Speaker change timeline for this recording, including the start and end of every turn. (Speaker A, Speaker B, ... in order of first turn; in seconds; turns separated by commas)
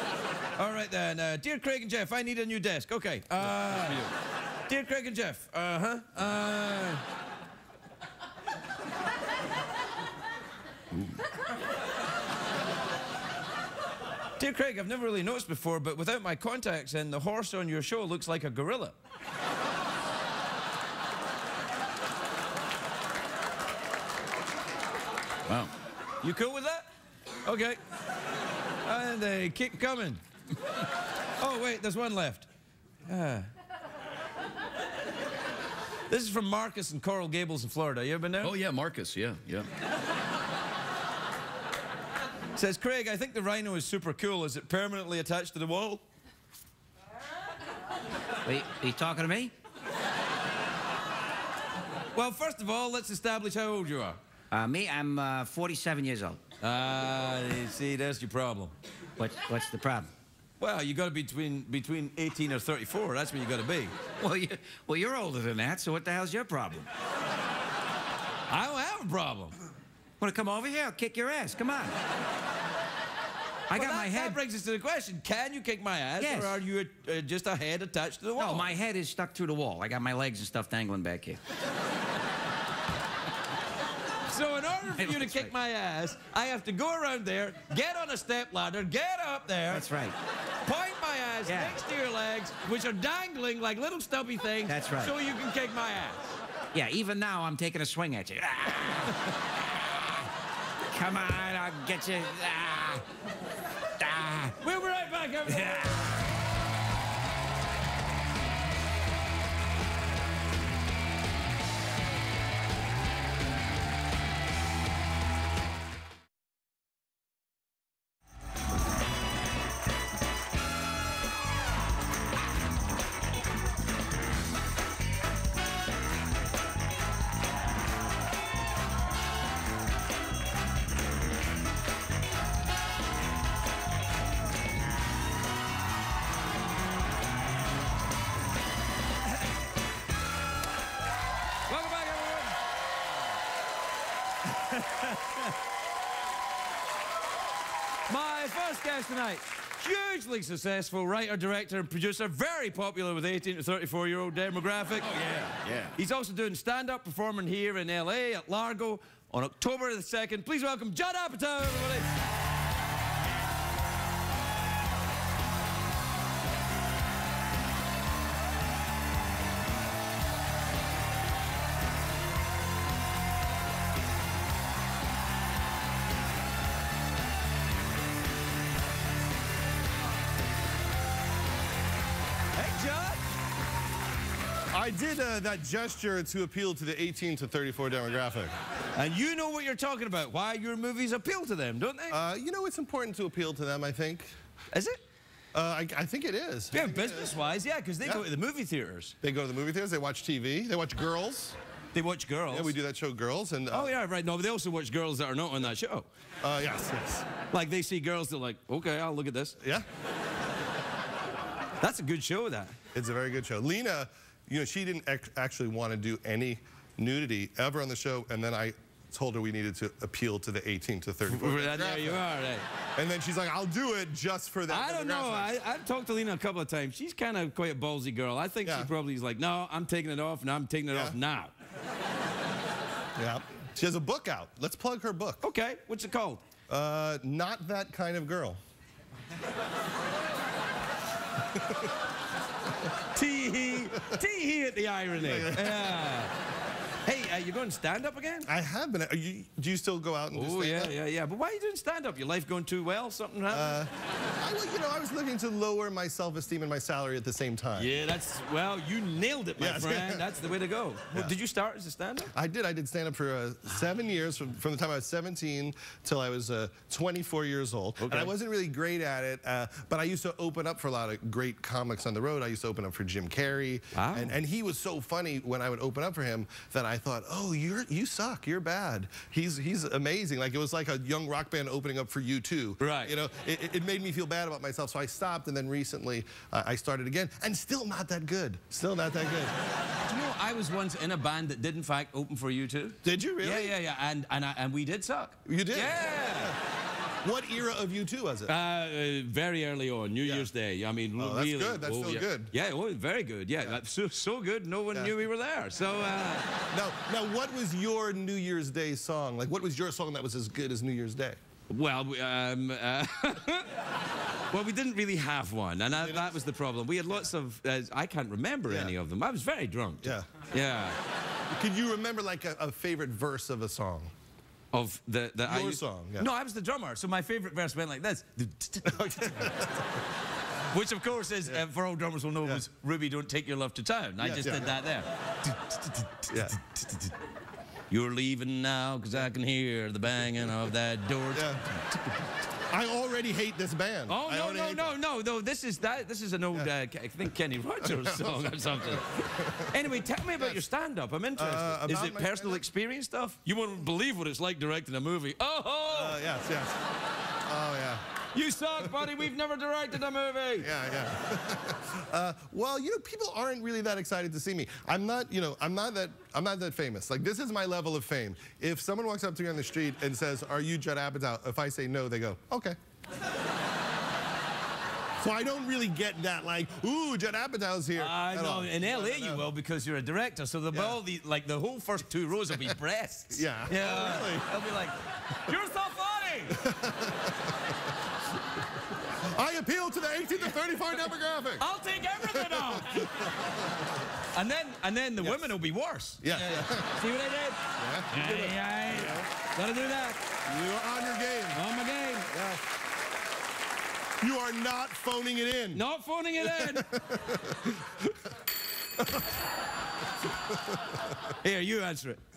Speaker A: 0.6-4.0, Speaker B: 3.4-4.1, Speaker A: 4.7-7.0, Speaker A: 14.4-18.9, Speaker B: 25.5-25.7, Speaker A: 26.2-26.9, Speaker A: 27.4-27.8, Speaker A: 28.8-30.2, Speaker A: 31.4-32.5, Speaker A: 33.0-33.5, Speaker A: 36.1-38.5, Speaker B: 38.4-39.7, Speaker A: 42.5-46.0, Speaker C: 48.4-49.5, Speaker A: 52.1-54.2, Speaker C: 54.5-56.4, Speaker A: 56.6-58.8, Speaker C: 59.2-60.1, Speaker A: 60.6-63.9, Speaker C: 64.2-66.9, Speaker A: 68.5-69.5, Speaker C: 70.2-71.9, Speaker C: 73.7-74.4, Speaker A: 73.7-78.7, Speaker C: 76.2-76.6, Speaker C: 78.3-81.4, Speaker A: 84.3-89.8, Speaker C: 85.0-85.5, Speaker C: 89.7-90.1, Speaker A: 90.6-96.2, Speaker C: 91.5-91.8, Speaker C: 94.7-95.1, Speaker C: 96.7-99.3, Speaker C: 100.9-103.0, Speaker C: 104.0-104.5, Speaker A: 104.6-106.1, Speaker C: 105.5-106.0, Speaker A: 141.7-142.6, Speaker A: 144.4-145.5, Speaker A: 148.1-155.1, Speaker B: 155.0-155.9, Speaker A: 155.9-162.1, Speaker A: 182.5-183.2, Speaker D: 184.7-188.5, Speaker A: 188.9-192.2, Speaker D: 192.1-194.3, Speaker A: 194.7-195.0, Speaker D: 195.5-197.3, Speaker A: 196.7-199.1, Speaker D: 199.2-201.6, Speaker A: 201.9-202.7, Speaker D: 202.5-203.9, Speaker A: 203.7-206.1, Speaker D: 206.4-207.3, Speaker A: 207.5-209.6, Speaker D: 209.6-209.8, Speaker A: 211.8-212.7, Speaker D: 212.9-222.2, Speaker A: 221.2-222.6, Speaker D: 222.9-225.6, Speaker A: 224.7-231.5, Speaker D: 228.6-228.9, Speaker D: 230.9-231.2, Speaker D: 233.2-235.4, Speaker A: 235.4-236.4, Speaker D: 236.7-238.6, Speaker D: 241.5-241.9, Speaker A: 243.1-246.3, Speaker D: 243.9-244.2, Speaker D: 245.2-246.0, Speaker A: 247.0-248.5, Speaker D: 248.4-250.9, Speaker A: 250.3-253.8, Speaker D: 253.5-257.9, Speaker A: 257.8-262.3, Speaker D: 259.6-260.3, Speaker D: 262.3-289.5, Speaker A: 268.0-268.3, Speaker A: 273.9-274.4, Speaker A: 282.8-283.1, Speaker A: 290.0-296.6, Speaker D: 293.0-293.7, Speaker D: 295.4-296.6, Speaker D: 297.2-298.5, Speaker A: 298.4-306.5, Speaker D: 300.2-300.5, Speaker D: 301.2-302.5, Speaker D: 306.7-311.4, Speaker A: 311.7-313.7, Speaker A: 314.5-321.0, Speaker D: 316.0-316.4, Speaker D: 318.7-318.9, Speaker D: 320.0-320.3, Speaker D: 321.5-324.1, Speaker A: 324.7-329.6, Speaker D: 325.4-326.3, Speaker D: 328.9-329.9, Speaker A: 330.7-337.1, Speaker D: 334.2-334.8, Speaker D: 336.3-336.6, Speaker A: 337.9-342.1, Speaker D: 341.3-341.6, Speaker D: 342.7-344.9, Speaker A: 344.1-356.2, Speaker D: 347.8-349.9, Speaker D: 351.4-352.6, Speaker D: 355.9-356.8, Speaker D: 357.4-358.0, Speaker A: 358.3-360.7, Speaker D: 360.6-372.8, Speaker D: 375.2-379.4, Speaker A: 377.9-386.6, Speaker D: 380.7-381.0, Speaker D: 383.3-384.6, Speaker D: 386.5-387.8, Speaker D: 389.2-391.6, Speaker A: 391.6-393.1, Speaker D: 392.2-394.1, Speaker A: 394.3-397.6, Speaker D: 395.2-395.5, Speaker D: 396.2-397.0, Speaker D: 397.8-399.2, Speaker A: 398.1-400.2, Speaker D: 400.4-401.6, Speaker A: 401.5-402.3, Speaker D: 402.3-402.6, Speaker D: 404.2-405.8, Speaker A: 405.7-406.9, Speaker D: 406.4-408.2, Speaker D: 409.0-409.4, Speaker D: 410.2-411.2, Speaker A: 411.4-412.2